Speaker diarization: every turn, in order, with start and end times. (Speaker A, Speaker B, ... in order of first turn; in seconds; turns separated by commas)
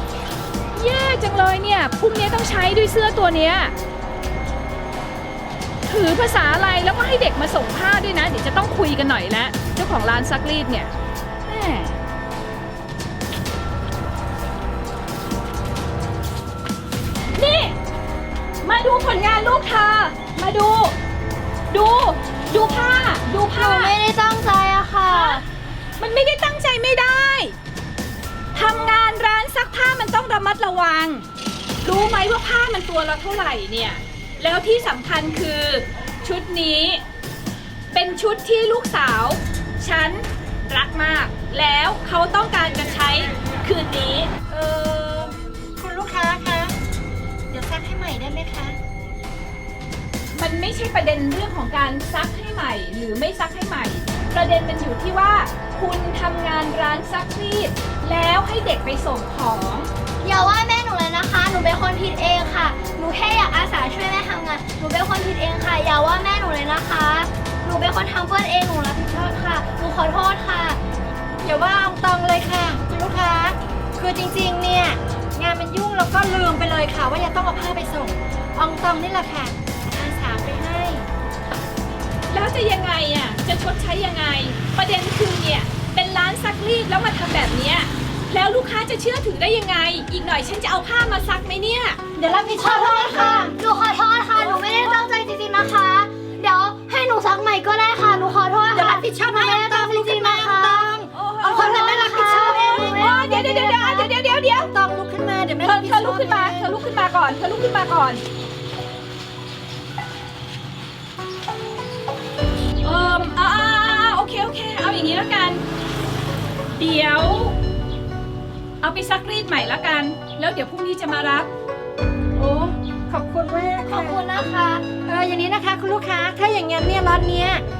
Speaker A: 0.7-3.7, Speaker A: 5.9-10.9, Speaker A: 11.4-11.9, Speaker A: 17.3-17.8, Speaker A: 18.6-20.9, Speaker A: 21.7-23.9, Speaker B: 22.2-25.4, Speaker A: 25.1-25.4, Speaker A: 26.0-27.5, Speaker A: 28.5-31.2, Speaker A: 31.8-37.0, Speaker A: 37.9-44.3, Speaker C: 44.5-46.8, Speaker C: 47.5-48.8, Speaker A: 50.3-59.9, Speaker B: 60.2-70.8, Speaker C: 71.4-81.1, Speaker A: 82.3-92.0, Speaker C: 92.1-93.5, Speaker B: 92.4-100.9, Speaker A: 94.4-95.0, Speaker C: 98.7-103.8, Speaker A: 101.1-104.7, Speaker B: 101.4-104.0, Speaker C: 104.4-106.7, Speaker A: 105.6-108.2, Speaker A: 112.8-115.6, Speaker A: 116.7-117.5, Speaker A: 118.8-121.5, Speaker C: 122.4-124.2, Speaker B: 123.9-124.8, Speaker C: 125.0-127.6